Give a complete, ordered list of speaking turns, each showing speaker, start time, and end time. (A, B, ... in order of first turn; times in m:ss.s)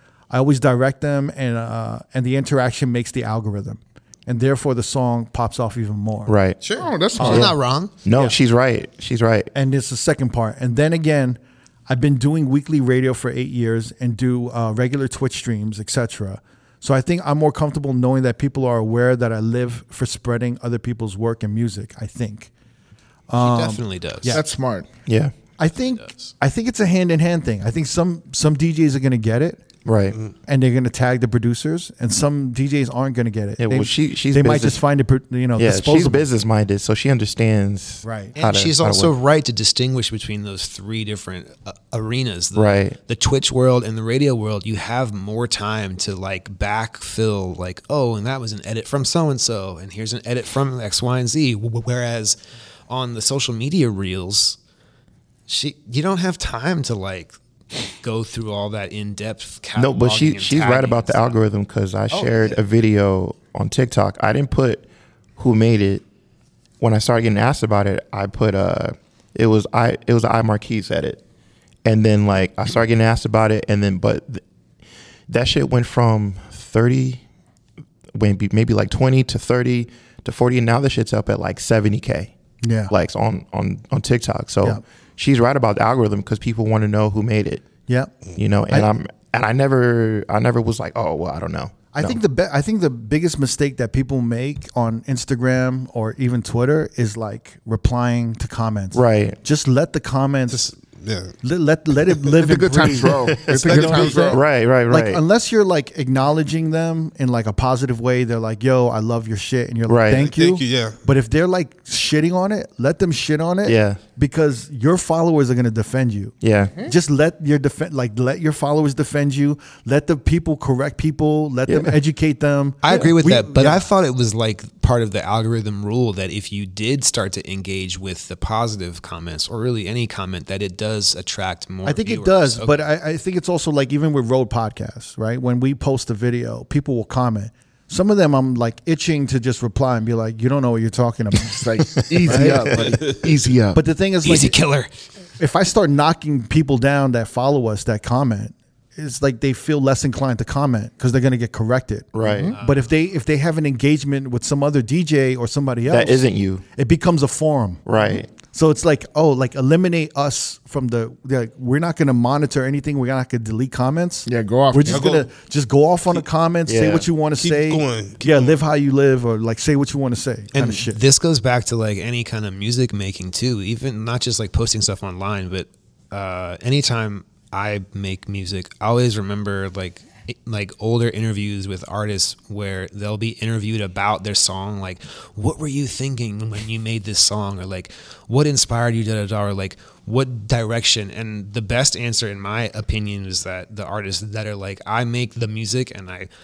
0:00.3-0:06.3 A
0:06.2-0:06.6 B
0:06.7-0:07.5 C
0:07.2-0:07.5 A
0:07.2-0:07.9 D
0:07.2-0:09.5 B
0:09.5-0:22.5 A
0:23.3-0:24.4 A
0:23.4-0:24.4 D
0:24.3-0:24.9 C
0:25.0-0:25.3 B
0:25.6-0:29.6 A
0:26.0-0:26.3 D
0:29.8-0:30.2 B
0:30.5-0:36.3 A
0:33.6-0:34.8 B
0:35.6-0:39.1 B
0:38.0-0:38.3 A
0:38.4-0:52.4 D
0:42.5-0:43.0 B
0:52.9-0:54.6 D
0:55.5-0:57.3 D
0:58.0-1:01.4 D
0:59.8-1:04.8 B
1:02.1-1:02.5 D
1:05.4-1:06.0 B
1:06.8-1:11.2 B
1:11.8-1:14.4 B
1:15.3-1:17.2 B
1:18.1-1:22.3 B
1:22.6-1:22.9 A
1:22.9-1:27.6 B
1:27.9-1:28.1 A
1:28.4-1:32.2 B
1:31.9-1:40.7 A
1:38.9-1:39.4 B
1:40.5-1:41.3 E
1:41.4-1:56.3 A
1:42.4-1:44.4 C
1:43.3-1:45.2 B
1:43.7-1:44.2 E
1:49.9-1:50.3 B
1:50.2-1:51.0 E
1:53.6-1:54.0 B
1:56.4-1:56.7 B
1:56.9-2:03.8 A
2:01.7-2:02.0 B
2:02.8-2:12.8 D
2:11.8-2:21.6 A
2:21.4-2:23.8 C
2:22.1-2:22.9 B
2:22.2-2:22.6 A
2:23.7-2:24.6 A
2:24.2-2:24.9 D
2:25.4-2:37.8 A
2:32.1-2:32.5 B
2:32.2-2:32.5 C
2:32.5-2:32.9 D
2:35.9-2:36.6 B
2:37.8-2:38.3 B
2:38.4-2:51.0 A
2:44.2-2:45.0 C
2:44.9-2:45.3 E
2:46.6-2:47.0 B
2:47.4-2:48.6 E
2:50.5-3:16.3 D